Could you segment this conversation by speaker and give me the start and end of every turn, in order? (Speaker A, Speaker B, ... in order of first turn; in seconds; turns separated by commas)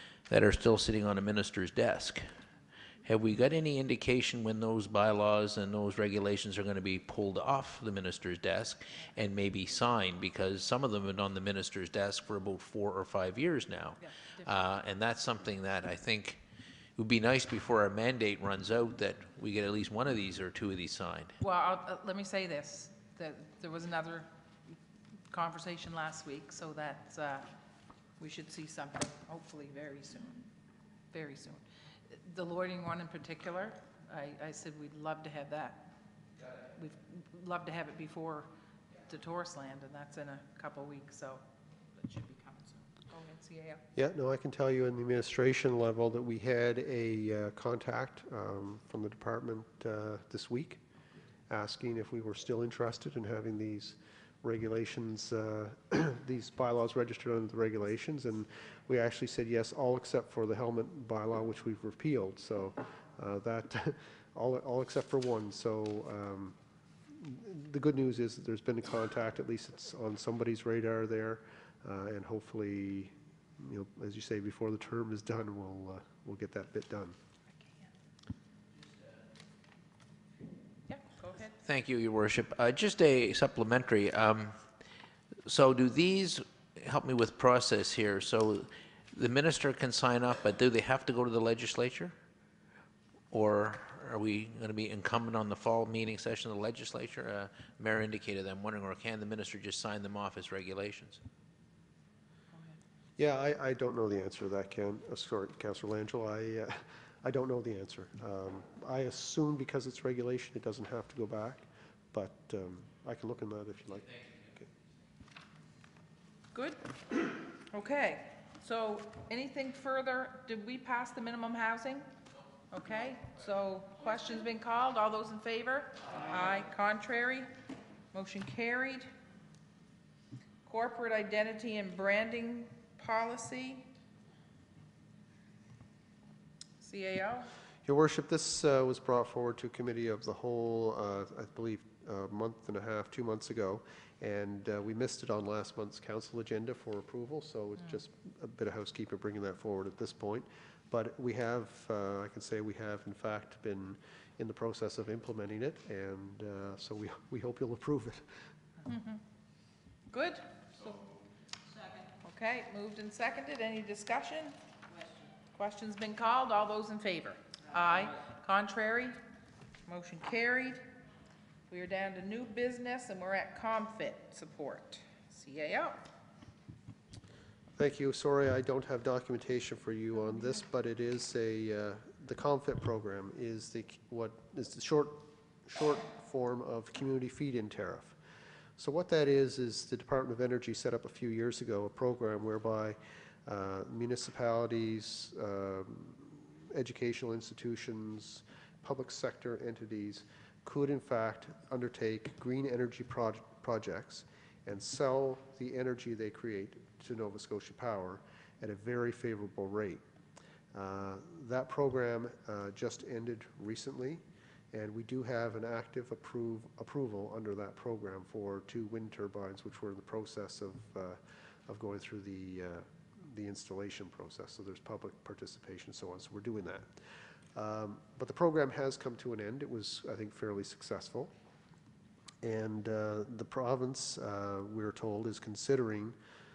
Speaker A: 0.3-2.3, Speaker A: 3.0-16.4, Speaker B: 14.0-14.5, Speaker A: 17.0-21.3, Speaker B: 21.4-24.3, Speaker B: 25.3-27.5, Speaker B: 28.2-30.4, Speaker B: 31.1-35.9, Speaker B: 36.8-38.5, Speaker B: 39.1-41.4, Speaker B: 42.0-43.8, Speaker C: 44.0-50.8, Speaker C: 51.5-66.6, Speaker C: 67.1-77.2, Speaker B: 77.6-77.9, Speaker B: 80.9-81.6, Speaker A: 81.6-84.6, Speaker A: 85.5-92.1, Speaker A: 93.3-101.2, Speaker C: 103.2-114.7, Speaker B: 116.5-122.1, Speaker B: 122.7-127.5, Speaker B: 128.1-129.1, Speaker B: 130.7-133.9, Speaker B: 136.8-137.5, Speaker C: 137.8-158.3, Speaker B: 158.8-159.2, Speaker B: 160.1-161.0, Speaker B: 162.2-164.6, Speaker B: 165.5-169.2, Speaker B: 169.9-170.9, Speaker B: 171.7-176.0, Speaker C: 177.8-188.2, Speaker C: 188.8-210.0, Speaker C: 210.7-227.0, Speaker C: 227.5-231.3, Speaker C: 232.4-236.2